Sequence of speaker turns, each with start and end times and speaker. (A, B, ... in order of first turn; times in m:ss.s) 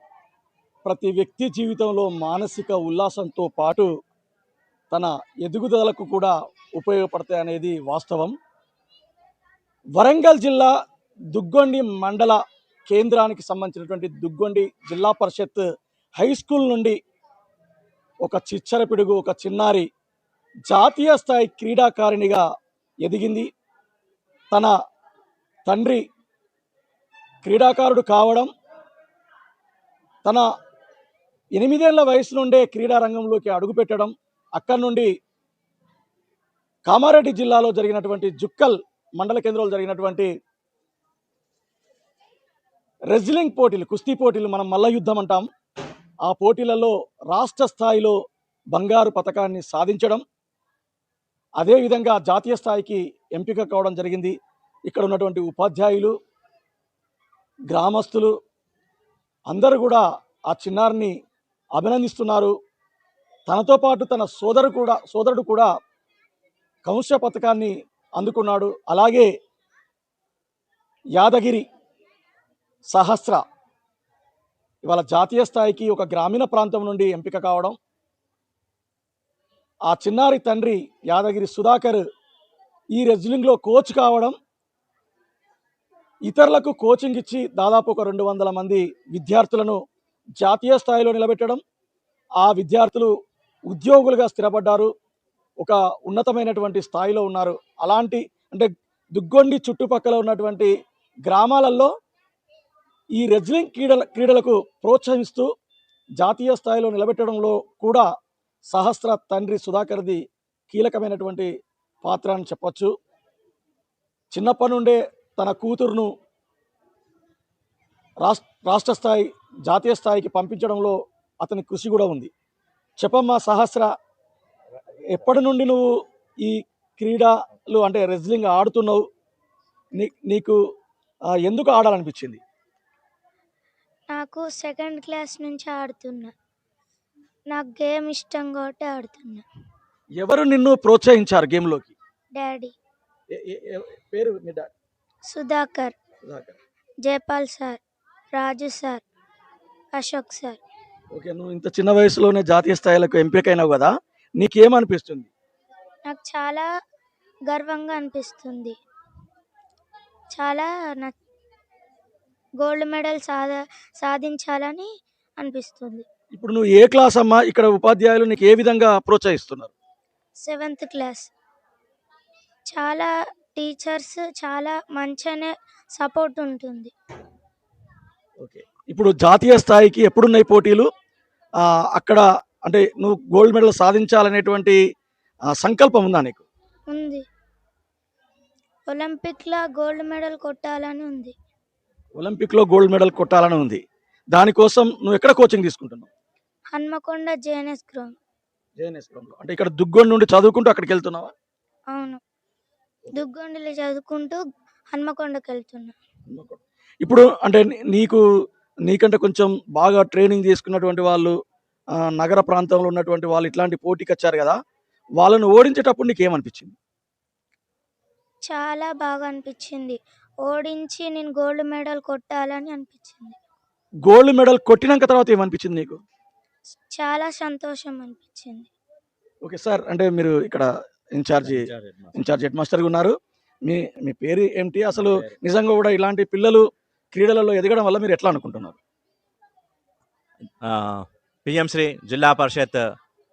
0:00.9-0:03.9 A
0:04.9-0:08.3 A
0:10.0-0:10.7 A
0:11.3-0:12.4 A
0:12.9-0:15.6 A
0:16.2-0:17.0 A
0:18.2-0:19.9 A
0:20.7-0:22.4 A
0:23.0-0:23.5 A
0:25.7-0:26.0 A
0:27.4-0:28.5 A
0:31.6-0:35.1 A
0:36.9-0:40.3 A
0:43.1-0:45.4 A
0:46.3-0:48.2 A
0:48.7-0:50.2 A
0:51.6-0:54.3 A
0:54.9-0:56.2 A
0:57.7-0:58.3 A
0:59.5-1:01.1 A
1:01.8-1:02.5 A
1:03.5-1:05.7 A
1:06.9-1:09.3 A
1:11.2-1:11.6 A
1:12.9-1:13.4 A
1:14.8-1:17.8 A
1:19.9-1:22.0 A
1:22.9-1:24.4 A
1:26.3-1:29.8 A
1:30.4-1:31.6 A
1:32.4-1:33.1 A
1:33.7-1:34.9 A
1:35.6-1:40.7 A
1:41.3-1:41.9 A
1:43.2-1:45.5 A
1:46.2-1:48.1 A
1:48.7-1:51.5 A
1:52.0-1:52.9 A
1:54.3-1:56.1 A
1:58.3-2:02.3 A
2:03.0-2:03.9 A
2:05.1-2:05.9 A
2:06.4-2:09.0 A
2:10.0-2:10.6 A
2:11.4-2:12.4 A
2:14.1-2:16.3 B
2:17.5-2:19.4 B
2:20.2-2:21.9 A
2:22.4-2:22.7 B
2:23.3-2:24.7 A
2:25.3-2:25.9 B
2:26.2-2:26.6 A
2:27.1-2:27.8 B
2:28.3-2:29.0 B
2:29.9-2:30.6 B
2:31.1-2:35.3 A
2:36.1-2:36.7 B
2:37.5-2:38.8 B
2:40.3-2:41.2 B
2:42.6-2:46.0 B
2:46.4-2:49.7 A
2:50.4-2:51.3 B
2:52.7-2:56.9 B
2:58.4-3:00.9 A
3:02.0-3:04.8 A
3:05.6-3:06.4 A
3:06.9-3:07.2 B
3:08.9-3:11.3 B
3:12.2-3:13.8 A
3:14.3-3:16.1 A
3:16.7-3:18.1 B
3:18.8-3:21.3 A
3:21.9-3:22.2 B
3:23.1-3:24.4 B
3:24.9-3:26.0 B
3:26.3-3:28.2 A
3:28.9-3:31.3 A
3:32.1-3:34.6 A
3:35.2-3:36.8 A
3:38.5-3:43.4 B
3:44.1-3:46.0 A
3:46.9-3:48.7 B
3:49.4-3:53.1 A
3:51.5-3:52.1 C
3:53.7-3:58.8 A
3:55.0-3:55.3 C
4:00.6-4:02.8 C